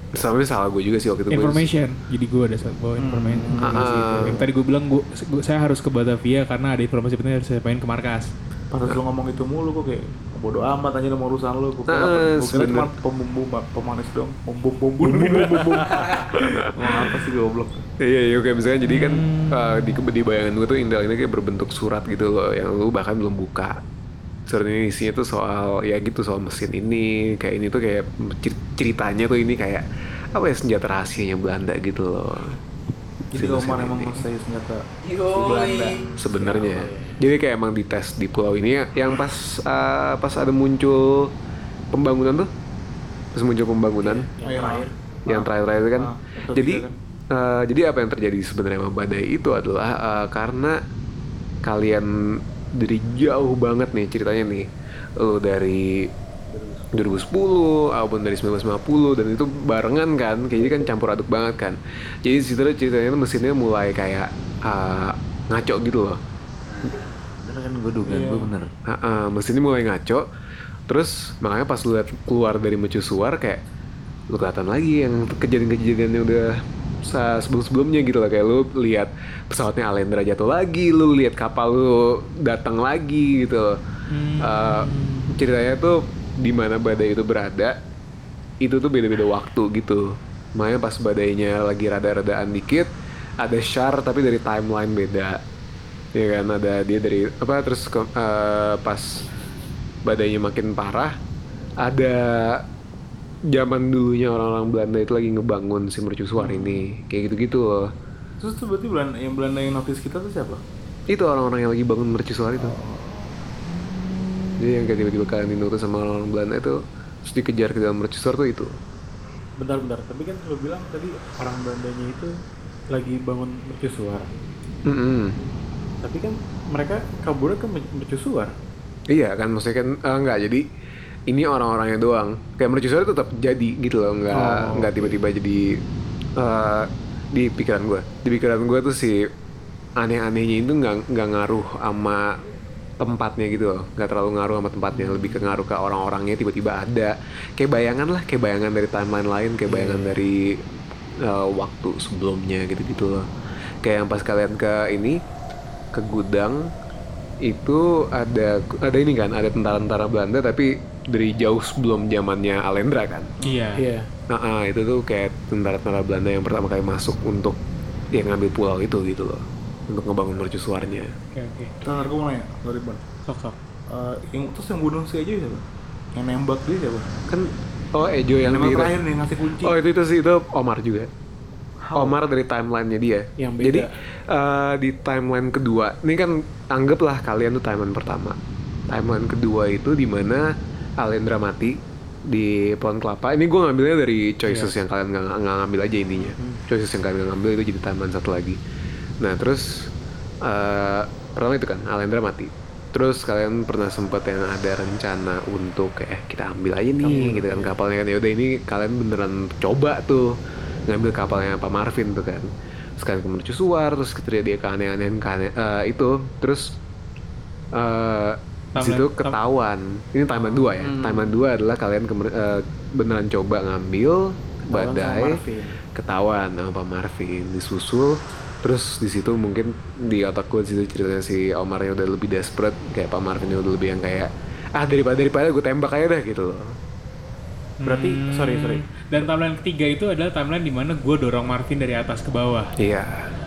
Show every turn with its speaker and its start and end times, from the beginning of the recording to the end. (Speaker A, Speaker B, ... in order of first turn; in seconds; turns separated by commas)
Speaker A: 0.2-1.6, Speaker B: 1.3-8.3, Speaker C: 3.0-4.4, Speaker A: 3.6-4.4, Speaker C: 8.7-17.8, Speaker A: 11.9-12.9, Speaker B: 15.1-15.6, Speaker A: 15.1-17.1, Speaker A: 18.0-23.8, Speaker B: 18.8-20.0, Speaker A: 24.5-32.6, Speaker A: 33.3-34.2, Speaker C: 33.3-36.2, Speaker D: 35.0-36.0, Speaker A: 36.2-41.3, Speaker E: 36.3-37.2, Speaker A: 41.9-42.5, Speaker A: 43.3-44.3, Speaker E: 44.0-44.9, Speaker C: 44.4-47.0, Speaker A: 45.3-50.8, Speaker A: 51.6-52.1, Speaker A: 52.8-54.6, Speaker A: 55.2-56.1, Speaker C: 56.5-56.8, Speaker A: 56.9-66.2, Speaker D: 66.7-68.7, Speaker C: 68.1-68.5, Speaker A: 68.9-70.2, Speaker A: 70.9-73.6, Speaker A: 74.3-76.5, Speaker A: 77.0-83.7, Speaker B: 84.1-85.3, Speaker A: 84.4-87.7, Speaker A: 88.6-90.0, Speaker A: 90.6-92.9, Speaker A: 93.4-95.4, Speaker A: 96.1-99.2, Speaker A: 100.0-101.1, Speaker A: 101.8-102.6, Speaker A: 103.5-107.9, Speaker C: 108.4-110.6, Speaker A: 111.1-112.7, Speaker C: 112.5-113.3, Speaker A: 114.6-118.7, Speaker E: 119.6-122.3, Speaker E: 122.9-124.3, Speaker A: 124.8-125.3, Speaker E: 126.0-128.5, Speaker A: 129.1-130.6, Speaker A: 131.3-135.6, Speaker E: 134.3-135.2, Speaker A: 136.4-139.2, Speaker A: 140.0-142.3, Speaker A: 143.0-150.3, Speaker E: 149.8-150.1, Speaker A: 151.2-153.2, Speaker A: 153.8-155.2, Speaker A: 155.9-156.6, Speaker A: 157.4-163.3, Speaker C: 163.4-163.7, Speaker B: 163.4-163.8, Speaker E: 163.7-164.1, Speaker A: 164.3-167.6, Speaker A: 168.1-171.1, Speaker B: 171.3-171.7, Speaker C: 171.8-173.0, Speaker B: 173.2-173.6, Speaker C: 173.9-175.6, Speaker C: 176.1-177.1, Speaker A: 177.3-178.9, Speaker C: 178.4-179.8, Speaker A: 179.6-181.1, Speaker C: 181.8-182.2, Speaker A: 181.9-188.4, Speaker E: 183.4-183.9, Speaker A: 188.9-190.4, Speaker A: 191.0-191.7, Speaker A: 192.3-198.6, Speaker B: 194.5-194.7, Speaker A: 199.2-199.9, Speaker A: 200.4-210.3, Speaker E: 207.0-207.8, Speaker A: 210.9-212.5, Speaker A: 213.0-216.7, Speaker A: 217.8-225.4, Speaker B: 218.8-219.3, Speaker E: 220.5-221.4, Speaker E: 224.7-225.8, Speaker A: 225.9-236.6, Speaker B: 237.8-242.7, Speaker E: 237.8-238.9, Speaker A: 242.8-243.2